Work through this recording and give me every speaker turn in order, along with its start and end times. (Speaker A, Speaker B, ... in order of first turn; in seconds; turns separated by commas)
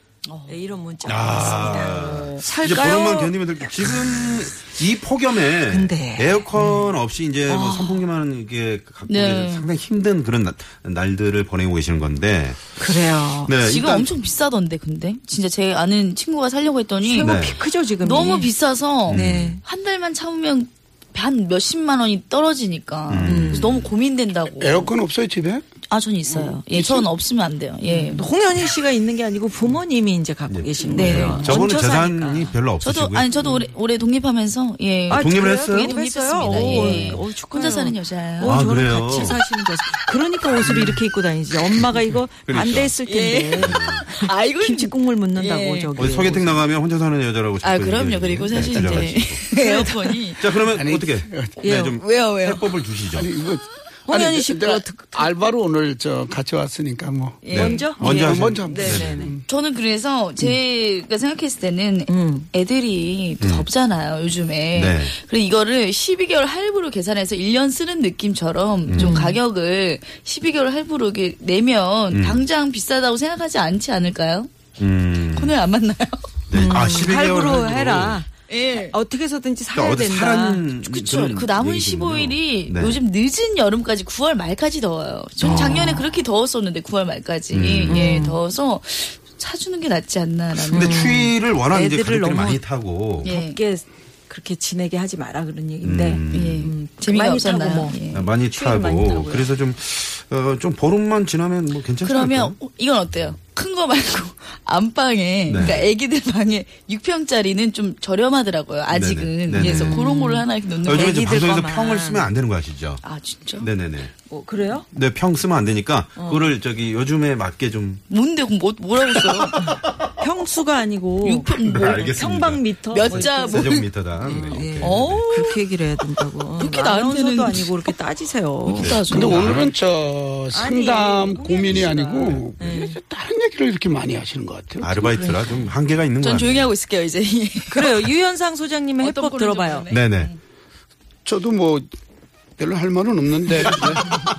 Speaker A: 0.2-0.7, Speaker B: 0.5-4.0, Speaker C: 1.0-12.6, Speaker A: 1.3-2.5, Speaker B: 5.7-6.9, Speaker A: 7.5-8.0, Speaker A: 9.1-9.7, Speaker B: 12.8-13.5, Speaker C: 13.4-14.1, Speaker A: 13.6-17.4, Speaker B: 17.1-18.5, Speaker C: 17.2-17.6, Speaker A: 18.0-24.9, Speaker B: 19.1-19.6, Speaker C: 19.1-19.5, Speaker C: 23.1-23.9, Speaker B: 23.2-23.8, Speaker D: 24.6-25.7, Speaker A: 25.9-28.3, Speaker D: 26.3-27.1, Speaker B: 27.8-32.5, Speaker C: 30.5-33.4, Speaker A: 30.9-31.6, Speaker A: 32.8-38.6, Speaker B: 35.1-46.6, Speaker C: 35.1-36.0, Speaker C: 38.4-39.4, Speaker C: 42.5-43.0, Speaker A: 43.0-46.2, Speaker C: 43.5-44.0, Speaker C: 46.0-49.5, Speaker A: 47.6-50.5, Speaker B: 49.5-50.2, Speaker C: 50.4-53.3, Speaker D: 50.6-51.6, Speaker B: 51.6-52.0, Speaker A: 51.8-53.0, Speaker D: 53.1-59.5, Speaker B: 54.1-55.3, Speaker A: 57.4-57.9, Speaker C: 57.5-59.3, Speaker B: 57.5-59.3, Speaker A: 59.5-74.5, Speaker B: 62.1-62.5, Speaker C: 63.4-63.7, Speaker C: 64.7-65.1, Speaker C: 68.9-69.3, Speaker B: 68.9-69.4, Speaker C: 72.1-72.4, Speaker C: 74.8-75.5, Speaker A: 75.3-76.3, Speaker C: 76.5-78.2, Speaker B: 76.5-80.6, Speaker A: 78.5-79.0, Speaker C: 79.7-83.0, Speaker A: 80.8-91.2, Speaker C: 85.4-86.0, Speaker B: 85.5-85.9, Speaker C: 87.5-88.2, Speaker B: 87.9-88.4, Speaker C: 90.6-93.3, Speaker B: 90.7-92.6, Speaker A: 93.2-93.6, Speaker B: 93.2-99.5, Speaker C: 95.8-96.7, Speaker A: 96.3-98.3, Speaker C: 98.1-102.6, Speaker A: 102.0-111.2, Speaker C: 105.5-105.9, Speaker C: 108.9-110.0, Speaker B: 109.5-112.3, Speaker C: 110.8-113.0, Speaker A: 113.0-113.7, Speaker C: 113.6-114.1, Speaker B: 114.3-114.9, Speaker C: 114.9-118.0, Speaker B: 116.2-116.5, Speaker A: 118.1-119.8, Speaker C: 119.3-119.9, Speaker B: 120.2-129.6, Speaker A: 121.2-122.2, Speaker C: 121.6-125.3, Speaker A: 122.9-125.6, Speaker A: 126.5-127.9, Speaker A: 128.6-129.6, Speaker C: 128.7-129.6, Speaker D: 129.1-135.3, Speaker B: 130.5-133.0, Speaker C: 131.7-132.4, Speaker C: 134.8-136.7, Speaker B: 135.2-135.7, Speaker A: 136.2-138.1, Speaker B: 137.7-139.9, Speaker A: 139.0-140.4, Speaker C: 139.9-140.3, Speaker D: 141.2-141.9, Speaker D: 142.6-144.2